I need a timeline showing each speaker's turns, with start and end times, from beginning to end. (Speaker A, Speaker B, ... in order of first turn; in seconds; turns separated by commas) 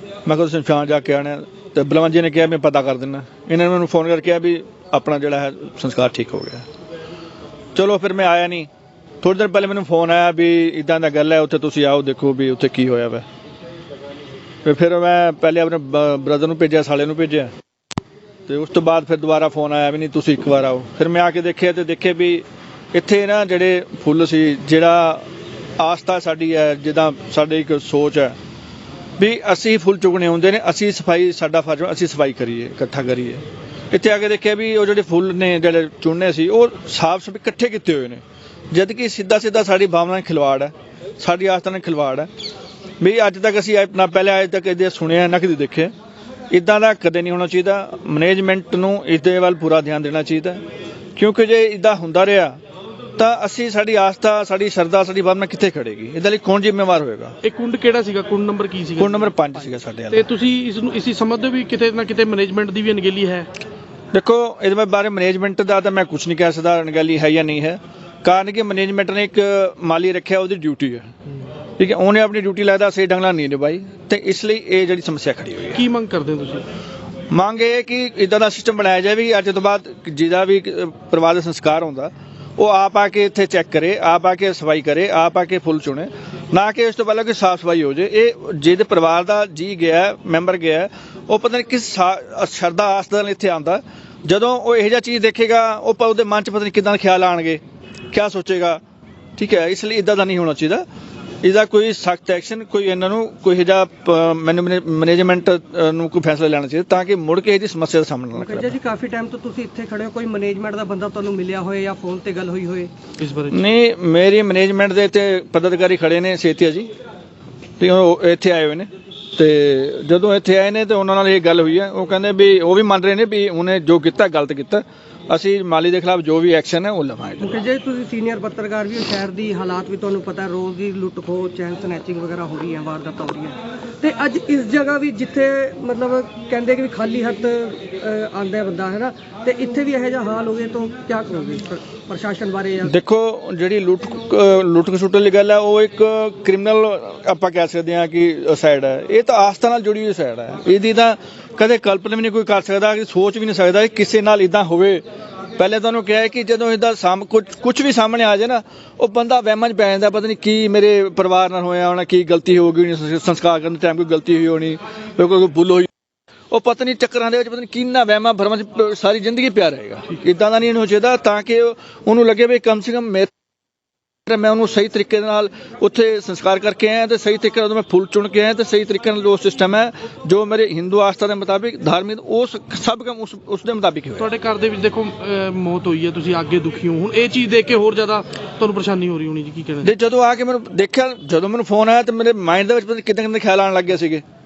Speaker A: 0.2-6.7, Speaker A: 7.8-8.7, Speaker A: 9.2-13.2, Speaker A: 14.6-17.5, Speaker A: 18.5-25.2, Speaker A: 25.8-28.4, Speaker A: 29.2-42.3, Speaker A: 43.0-45.9, Speaker A: 46.5-50.6, Speaker A: 51.2-52.6, Speaker A: 53.2-57.4, Speaker B: 57.4-59.3, Speaker A: 59.0-60.3, Speaker B: 60.1-63.5, Speaker A: 64.1-71.1, Speaker A: 71.8-75.8, Speaker B: 75.8-76.6, Speaker A: 77.3-97.6, Speaker A: 98.1-98.8, Speaker A: 99.4-100.8, Speaker A: 101.4-108.8, Speaker C: 108.3-112.9, Speaker B: 113.2-113.6, Speaker A: 113.5-116.9, Speaker A: 117.8-127.6, Speaker C: 127.4-142.9, Speaker A: 142.8-155.0, Speaker A: 155.6-165.9, Speaker A: 166.5-173.3, Speaker A: 174.3-184.3, Speaker B: 184.2-189.9, Speaker A: 189.8-194.2